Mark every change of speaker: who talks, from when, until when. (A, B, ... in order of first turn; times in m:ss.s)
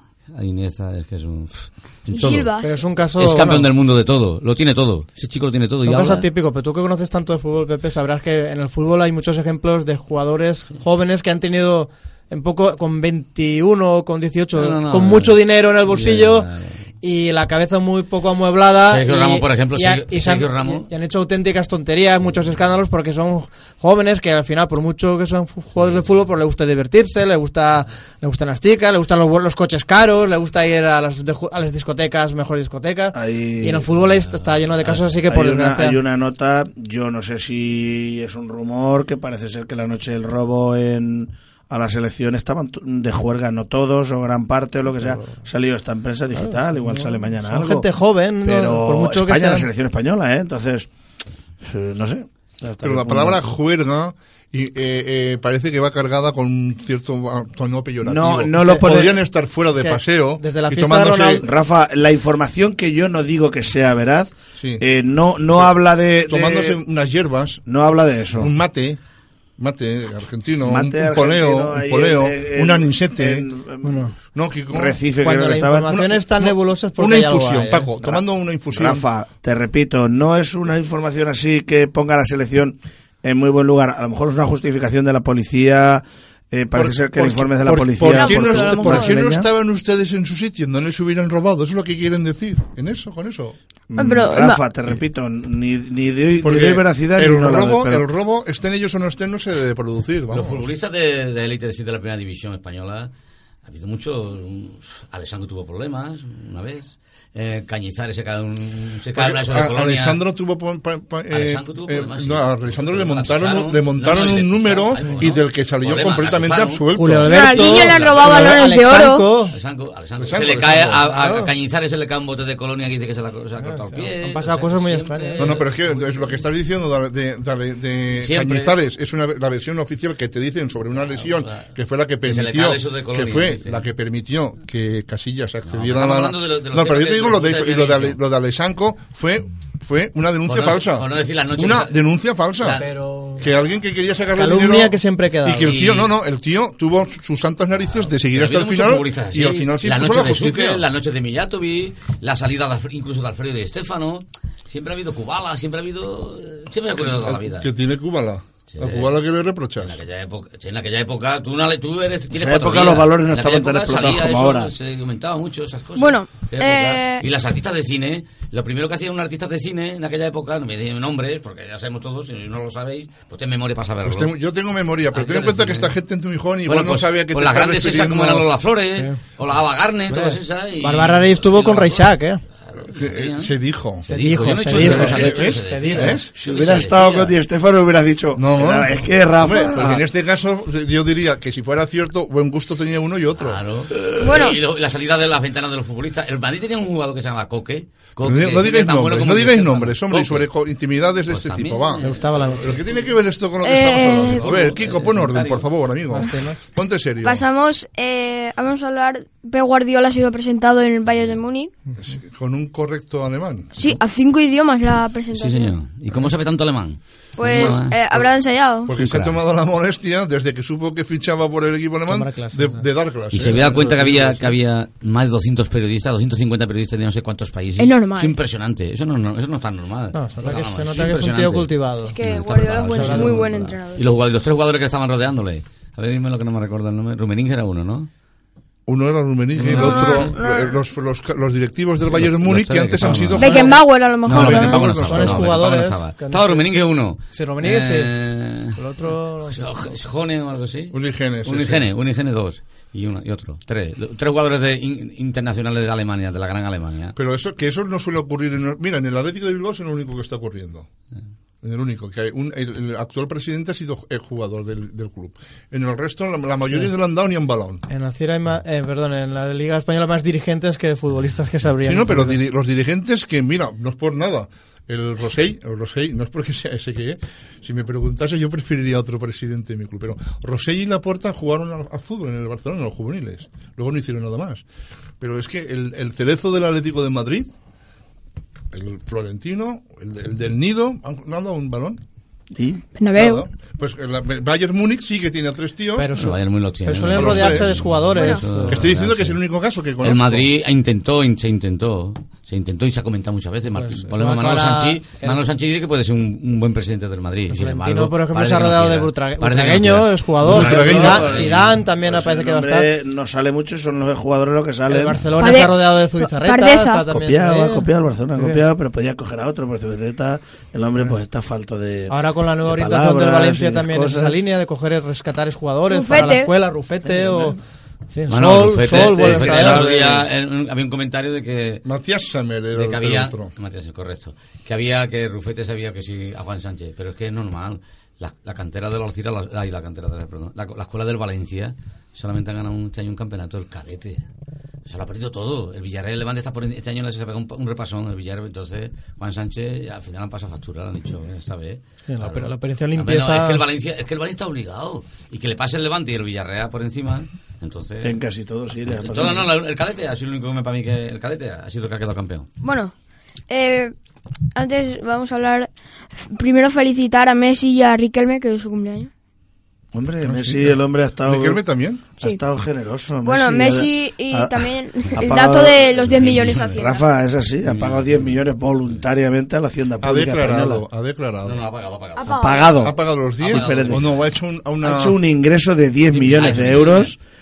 0:00.3-0:02.5 A
0:02.1-0:02.8 B
0:02.6-0:03.7 C
0:03.2-0:06.3 A
0:05.8-0:16.5 C
0:14.5-0:16.8 A
0:17.0-0:36.0 C
0:18.9-0:20.9 A
0:33.1-0:33.9 D
0:35.3-0:47.9 D
0:45.0-0:45.4 C
0:46.3-0:49.7 C
0:48.4-0:50.9 D
0:51.6-0:53.5 D
0:52.8-1:01.4 E
0:58.0-0:59.2 D
0:58.6-0:58.9 C
0:59.7-1:01.4 C
1:01.4-1:06.8 D
1:04.6-1:04.8 E
1:05.5-1:05.7 E
1:06.2-1:07.6 E
1:07.6-1:08.5 D
1:08.3-1:09.0 E
1:09.6-1:13.5 E
1:10.6-1:14.0 D
1:13.8-1:14.1 C
1:14.3-1:15.0 E
1:14.7-1:16.0 D
1:15.2-1:17.9 C
1:15.8-1:19.0 E
1:18.0-1:29.5 D
1:26.7-1:33.6 E
1:28.0-1:29.2 B
1:33.9-1:38.0 D
1:34.0-1:34.6 B
1:36.4-1:40.7 E
1:40.3-1:43.1 A
1:43.6-1:50.2 A
1:49.1-1:57.5 E
1:51.3-1:58.6 A
1:56.9-1:59.5 C
1:57.3-1:59.3 B
1:59.5-2:06.4 A
2:00.2-2:01.0 E
2:01.1-2:01.5 C
2:03.6-2:05.6 C
2:05.4-2:22.8 E
2:08.2-2:08.7 A
2:11.2-2:11.7 A
2:12.2-2:13.8 A
2:15.7-2:18.2 A
2:20.5-2:22.0 A
2:22.6-2:22.9 A
2:22.8-2:23.5 C
2:23.4-2:30.8 E
2:24.4-2:25.7 C
2:25.6-2:26.1 A
2:28.3-2:37.7 A
2:37.0-2:40.0 E
2:38.7-2:39.2 A
2:39.8-2:54.3 A
2:42.3-2:44.7 D
2:46.0-2:47.2 B
2:54.0-2:58.5 E
2:55.1-2:56.0 A
2:56.6-3:07.4 A
3:00.1-3:02.4 C
3:02.8-3:04.1 E
3:04.1-3:06.2 C
3:04.6-3:06.3 E
3:06.3-3:10.0 D
3:08.4-3:13.6 E
3:13.4-3:20.5 A
3:14.2-3:14.6 B
3:18.2-3:27.4 E
3:21.3-3:23.0 A
3:22.0-3:22.8 C
3:23.6-3:24.6 B
3:24.1-3:25.7 A
3:26.1-3:26.6 C
3:27.2-3:31.7 B
3:32.0-3:33.9 E
3:33.8-3:35.7 B
3:35.3-3:38.0 A
3:37.4-3:38.9 B
3:37.4-3:38.2 E
3:38.8-3:44.6 E
3:38.9-3:39.4 A
3:42.1-3:42.8 C
3:43.3-3:58.1 A
3:47.8-3:48.4 B
3:50.1-3:52.2 C
3:52.0-3:54.0 B
3:52.9-3:53.4 C
3:58.9-4:03.7 E
3:59.6-4:00.3 A
3:59.7-4:00.8 B
4:02.1-4:08.8 A
4:03.4-4:04.9 B
4:03.4-4:03.8 C
4:04.2-4:05.6 E
4:04.3-4:06.6 C
4:07.3-4:08.1 C
4:08.7-4:09.9 C
4:09.5-4:17.1 A
4:10.9-4:11.9 E
4:17.2-4:20.9 E
4:21.6-4:27.8 E
4:27.9-4:32.4 C
4:31.8-4:44.6 E
4:45.2-4:47.5 E
4:48.7-4:52.0 E
4:52.6-4:52.8 D
4:53.0-4:53.4 B
4:53.1-4:56.1 E
4:56.0-4:58.8 C
4:56.1-4:59.4 A
4:57.1-4:57.7 E
4:58.2-4:58.4 B
4:58.7-5:00.5 E
5:00.0-5:11.8 A
5:03.7-5:05.4 C
5:07.5-5:12.9 C
5:10.4-5:11.5 E
5:10.5-5:15.4 D
5:14.9-5:18.6 C
5:15.4-5:17.0 B
5:17.1-5:24.4 D
5:22.1-5:27.6 C
5:25.9-5:26.5 B
5:27.0-5:27.6 D
5:28.1-5:29.8 C
5:28.3-5:31.8 A
5:29.2-5:30.2 E
5:29.3-5:29.9 D
5:31.8-5:33.5 E
5:32.7-5:44.2 A
5:44.8-5:58.2 A
5:52.1-5:53.6 C
5:58.0-5:59.5 D
5:58.9-6:02.5 A
6:02.6-6:02.9 B
6:03.5-6:03.9 B
6:04.5-6:09.1 B
6:09.9-6:11.6 D
6:10.2-6:12.1 E
6:12.2-6:20.8 D
6:13.2-6:17.1 B
6:16.1-6:16.8 A
6:17.6-6:19.0 A
6:20.0-6:21.6 E
6:21.4-6:22.6 A
6:22.2-6:22.8 B
6:22.3-6:24.0 D
6:22.8-6:25.2 E
6:23.4-6:24.1 A
6:24.8-6:27.2 D
6:26.1-6:27.1 A